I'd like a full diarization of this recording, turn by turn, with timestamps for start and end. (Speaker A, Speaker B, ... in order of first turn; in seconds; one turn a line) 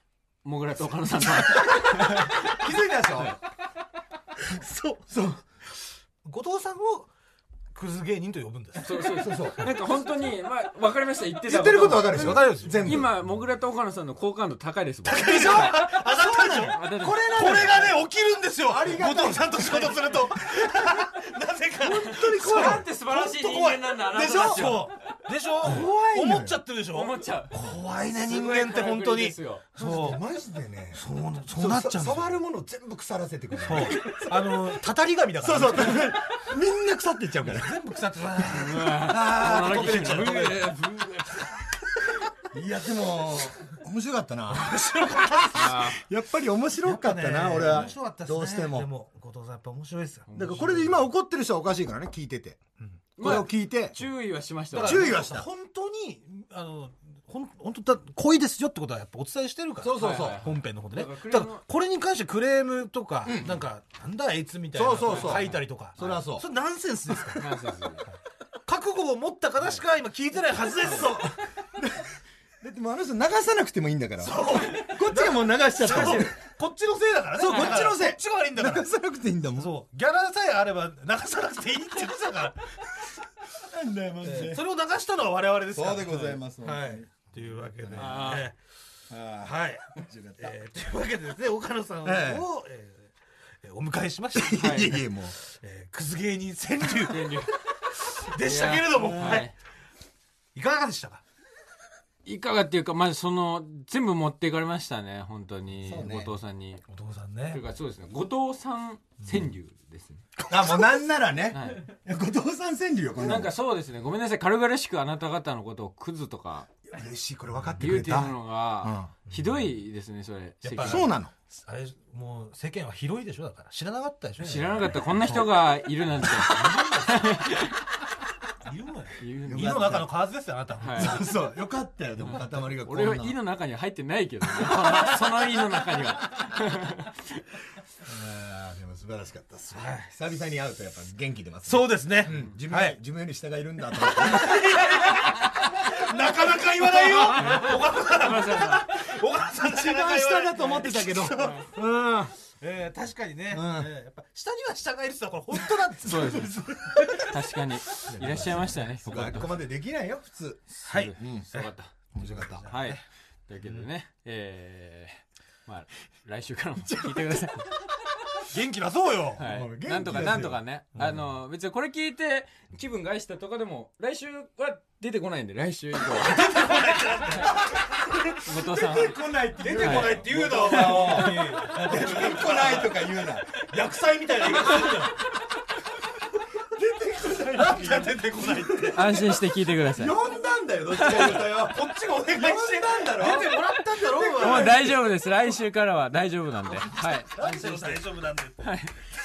Speaker A: 0.4-2.6
Speaker B: 2.4-3.4
Speaker C: 4.5-5.0
Speaker B: 5.1-5.4
Speaker C: 6.2-7.1
Speaker C: 7.7-9.1
Speaker A: 8.8-15.9
Speaker B: 9.2-9.6
Speaker B: 11.5-13.1
Speaker C: 12.0-13.0
Speaker C: 15.1-30.2
Speaker B: 15.2-18.0
Speaker A: 16.7-17.4
Speaker B: 18.7-20.0
Speaker A: 21.8-25.1
Speaker B: 21.9-22.9
Speaker B: 24.1-24.8
Speaker B: 25.6-26.6
Speaker A: 26.9-27.5
Speaker A: 28.3-29.6
Speaker B: 29.8-34.4
Speaker C: 30.9-32.4
Speaker C: 33.6-36.2
Speaker B: 35.4-37.8
Speaker C: 37.4-40.8
Speaker A: 38.5-41.7
Speaker B: 42.5-48.9
Speaker C: 44.5-45.6
Speaker A: 45.5-46.0
Speaker C: 46.8-51.0
Speaker A: 50.3-50.7
Speaker B: 50.4-52.6
Speaker A: 53.2-55.2
Speaker B: 53.2-54.0
Speaker C: 54.7-67.6
Speaker B: 54.8-55.5
Speaker B: 59.8-60.4
Speaker A: 60.0-61.6
Speaker B: 63.3-63.6
Speaker B: 64.8-66.5
Speaker A: 65.0-65.5
Speaker A: 67.4-68.0
Speaker C: 68.7-71.3
Speaker B: 70.8-76.4
Speaker C: 74.2-78.9
Speaker A: 75.8-76.2
Speaker B: 77.4-79.7
Speaker C: 79.6-82.9
Speaker B: 83.5-84.6
Speaker C: 84.2-88.6
Speaker B: 85.7-88.4
Speaker A: 88.0-88.5
Speaker B: 89.1-90.6
Speaker C: 89.4-93.1
Speaker B: 92.0-92.5
Speaker C: 93.6-94.9
Speaker B: 94.3-95.4
Speaker A: 94.6-95.0
Speaker C: 95.4-99.5
Speaker A: 97.1-97.6
Speaker A: 98.4-99.5
Speaker C: 100.5-101.2
Speaker A: 102.2-106.8
Speaker B: 105.8-106.3
Speaker C: 106.9-107.6
Speaker A: 107.5-110.2
Speaker B: 110.5-113.5
Speaker A: 111.5-111.9
Speaker A: 113.2-116.7
Speaker C: 116.9-117.9
Speaker B: 116.9-119.1
Speaker A: 117.8-121.1
Speaker C: 119.3-119.6
Speaker C: 120.6-124.9
Speaker B: 120.8-121.3
Speaker A: 124.4-127.8
Speaker C: 126.2-127.4
Speaker C: 128.7-131.3
Speaker A: 129.2-130.0
Speaker B: 129.5-130.1
Speaker A: 130.8-131.2
Speaker B: 131.0-133.4
Speaker A: 132.2-137.1
Speaker C: 134.6-135.6
Speaker B: 138.1-147.6
Speaker C: 139.7-140.1
Speaker C: 141.7-143.0
Speaker C: 144.0-151.7
Speaker A: 147.3-148.9
Speaker B: 149.6-152.3
Speaker A: 151.3-151.7
Speaker C: 152.6-157.5
Speaker B: 153.5-153.9
Speaker A: 156.1-156.5
Speaker A: 157.2-159.5
Speaker B: 158.1-161.5
Speaker C: 159.1-159.4
Speaker A: 160.7-161.9
Speaker C: 160.9-163.0
Speaker B: 162.2-162.7
Speaker A: 162.7-167.7
Speaker B: 166.9-167.4
Speaker C: 168.4-169.4
Speaker A: 169.4-176.6
Speaker B: 169.4-170.6
Speaker C: 176.1-178.4
Speaker A: 178.4-179.2
Speaker B: 178.7-183.6
Speaker C: 179.6-185.2
Speaker A: 179.8-181.4
Speaker B: 184.4-185.1
Speaker B: 186.7-189.0
Speaker C: 187.5-189.2
Speaker A: 188.9-190.2
Speaker B: 189.9-194.9
Speaker A: 191.0-191.3
Speaker C: 191.0-195.0
Speaker A: 194.4-198.0
Speaker C: 197.0-198.7
Speaker A: 198.6-199.1